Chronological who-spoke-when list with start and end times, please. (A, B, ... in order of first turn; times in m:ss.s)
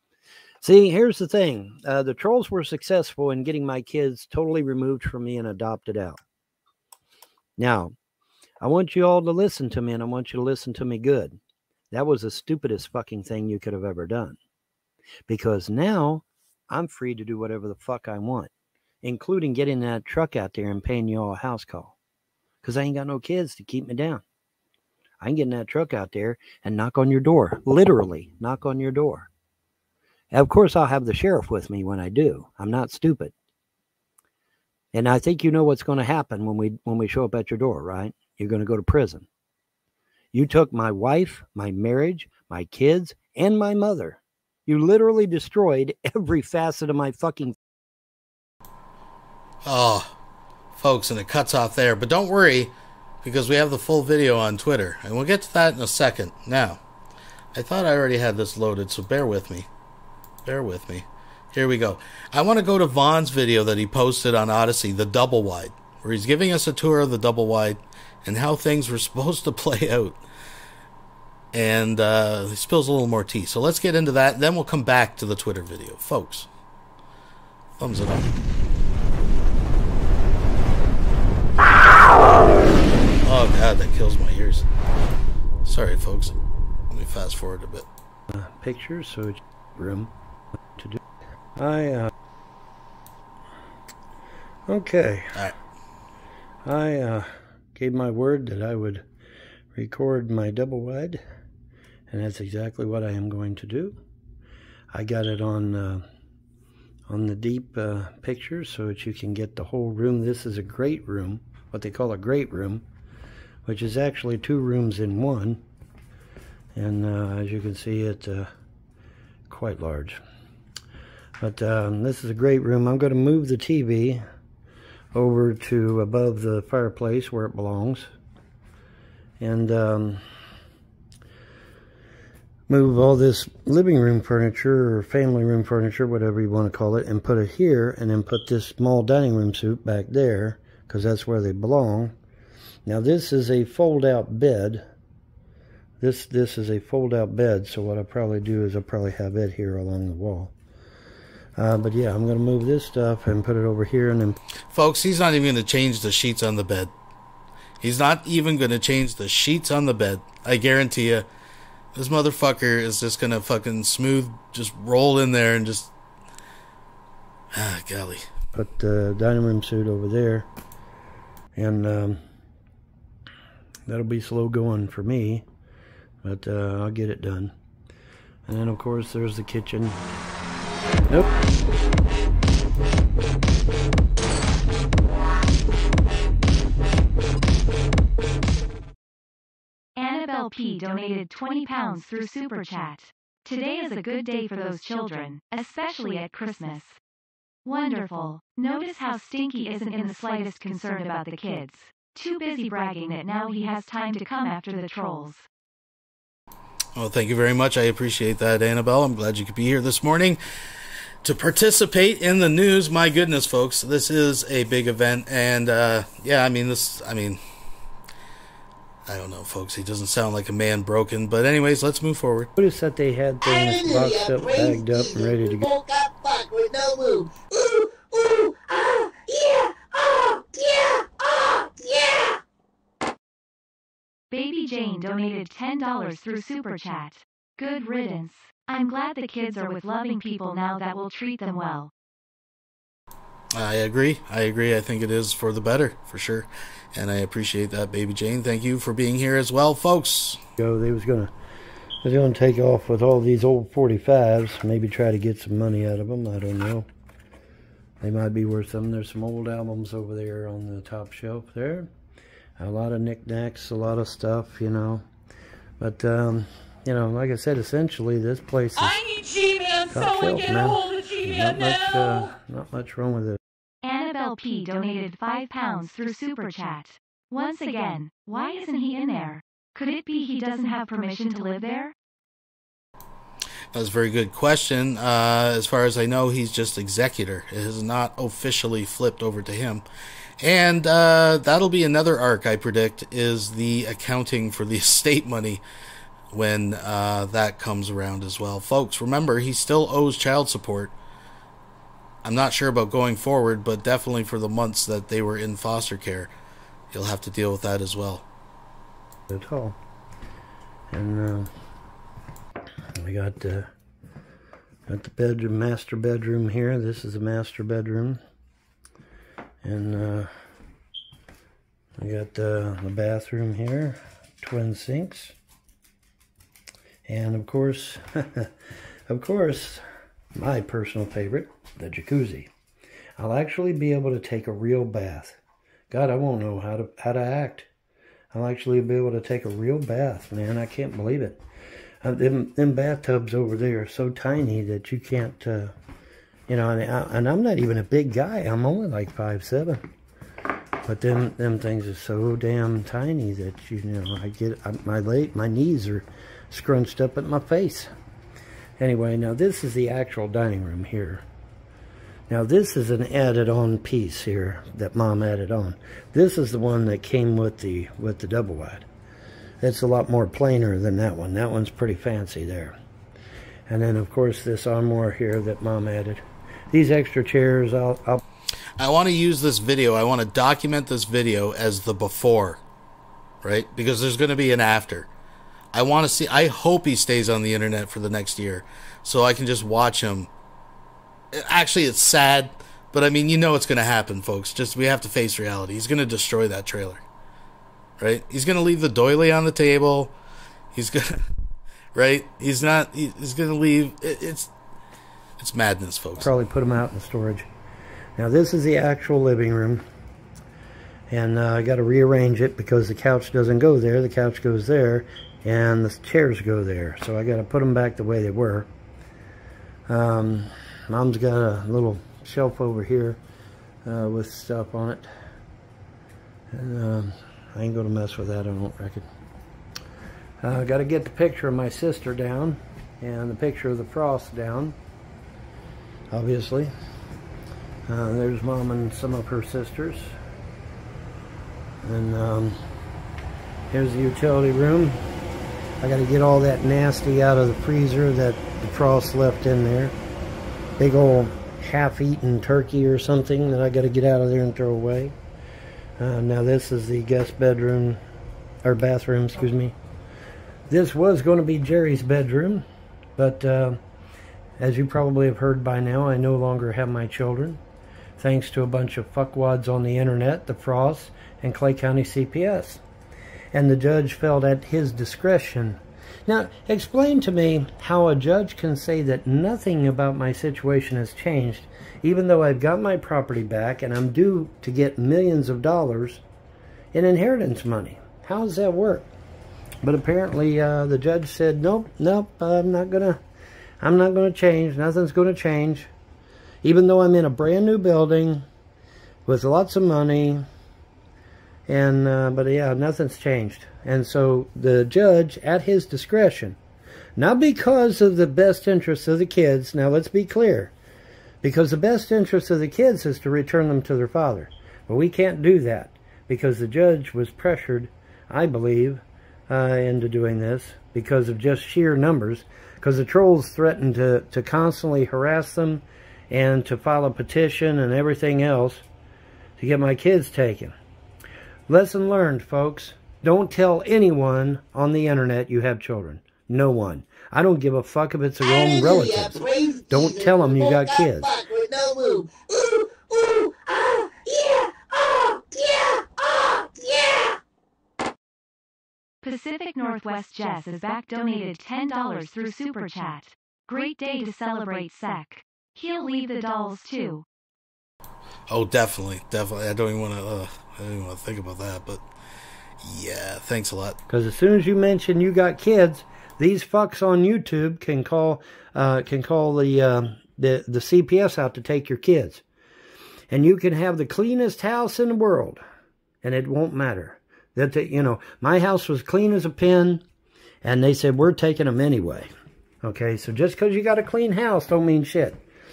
0:00.6-0:06.2 A
0:07.6-0:08.0 A
0:08.6-0:11.4 A
0:11.9-0:14.4 A
0:15.3-0:18.5 A
0:19.0-0:22.0 A
0:22.6-0:24.2 A
0:25.2-0:29.3 A
0:30.3-0:33.3 A
0:34.9-0:39.3 A
0:40.3-0:47.6 A
0:49.6-0:50.1 B
0:50.8-0:52.7 B
0:53.2-0:56.8 B
0:57.5-0:59.7 B
1:00.4-1:10.2 B
1:11.5-1:16.5 B
1:17.8-1:18.3 B
1:23.2-1:24.7 B
1:25.6-1:26.4 B
1:26.9-1:27.9 B
1:28.3-1:30.1 A
1:30.8-1:31.0 A
1:31.6-1:32.1 A
1:34.7-1:35.5 A
1:36.6-1:39.0 A
1:39.7-1:41.2 A
1:42.1-1:44.0 A
1:44.9-1:46.0 A
1:47.1-1:52.8 A
1:53.7-1:55.6 A
1:56.8-1:58.5 A
1:59.5-2:00.2 A
2:01.4-2:04.2 A
2:05.1-2:08.1 A
2:09.4-2:10.2 A
2:12.7-2:22.2 A
2:22.9-2:24.8 A
2:26.0-2:30.5 A
2:31.6-2:34.4 A
2:34.7-2:36.9 B
2:37.8-2:41.2 B
2:42.0-2:45.9 B
2:47.5-2:48.3 B
2:48.5-2:50.5 A
2:51.6-2:52.2 A
2:53.9-2:55.4 A
2:56.2-2:57.5 A
2:58.5-3:00.0 A
3:10.0-3:17.0 C
3:17.6-3:25.5 C
3:27.0-3:30.4 B
3:31.2-3:37.4 B
3:39.1-3:42.5 B
3:42.6-3:45.6 A
3:43.4-3:52.4 D
3:54.3-4:01.9 C
4:03.5-4:10.4 B
4:10.6-4:11.3 A
4:12.0-4:16.9 A
4:18.0-4:21.9 A
4:22.6-4:25.0 A
4:25.8-4:29.0 A
4:28.8-4:32.4 E
4:29.9-4:33.4 A
4:33.8-4:41.9 C
4:43.7-4:49.8 B
4:50.4-4:55.6 B
4:56.3-5:00.9 B
5:02.2-5:06.3 B
5:06.9-5:08.2 B
5:09.3-5:09.8 A
5:10.9-5:11.5 A
5:13.0-5:13.7 A
5:14.9-5:18.2 A
5:19.6-5:20.3 A
5:22.0-5:25.4 A
5:27.1-5:28.5 A
5:29.1-5:29.8 A
5:30.3-5:32.5 A
5:33.2-5:35.4 A
5:35.9-5:37.7 A
5:38.3-5:41.4 A
5:42.0-5:45.7 A
5:46.5-5:49.8 A
5:50.8-5:57.9 A
5:58.8-6:01.2 A
6:02.3-6:08.9 A
6:09.6-6:12.8 A
6:13.7-6:18.2 A
6:18.8-6:22.6 B
6:23.4-6:25.1 B
6:25.7-6:30.3 B
6:31.3-6:37.0 B
6:38.0-6:40.1 B
6:40.7-6:41.3 B
6:42.0-6:44.5 B
6:45.4-6:46.3 B
6:46.2-6:47.5 A
6:48.2-6:49.8 A
6:51.1-6:58.7 A
6:59.9-7:03.2 A
7:03.8-7:05.1 A
7:06.5-7:09.1 A
7:10.4-7:14.8 A
7:16.1-7:16.7 A
7:17.9-7:20.2 A
7:21.8-7:22.6 A
7:23.7-7:25.0 A
7:25.8-7:30.0 A
7:30.8-7:35.2 A
7:36.0-7:38.0 A
7:38.6-7:39.8 A
7:40.7-7:42.6 A
7:43.2-7:43.8 A
7:44.6-7:47.6 A
7:48.2-7:52.8 A
7:53.5-8:06.2 A
8:06.9-8:09.1 A
8:09.8-8:13.2 A
8:13.8-8:15.9 A
8:16.6-8:18.5 A
8:19.3-8:20.4 A
8:21.7-8:26.6 A
8:27.2-8:30.7 A
8:31.4-8:48.8 A
8:49.6-8:50.8 A
8:51.7-9:01.3 A
8:58.4-9:07.4 D
9:09.2-9:17.2 C
9:18.5-9:22.0 B
9:22.8-9:24.0 B
9:24.1-9:32.4 A
9:33.3-9:35.6 A
9:36.2-9:40.0 A
9:40.6-9:42.3 A
9:42.8-9:45.4 A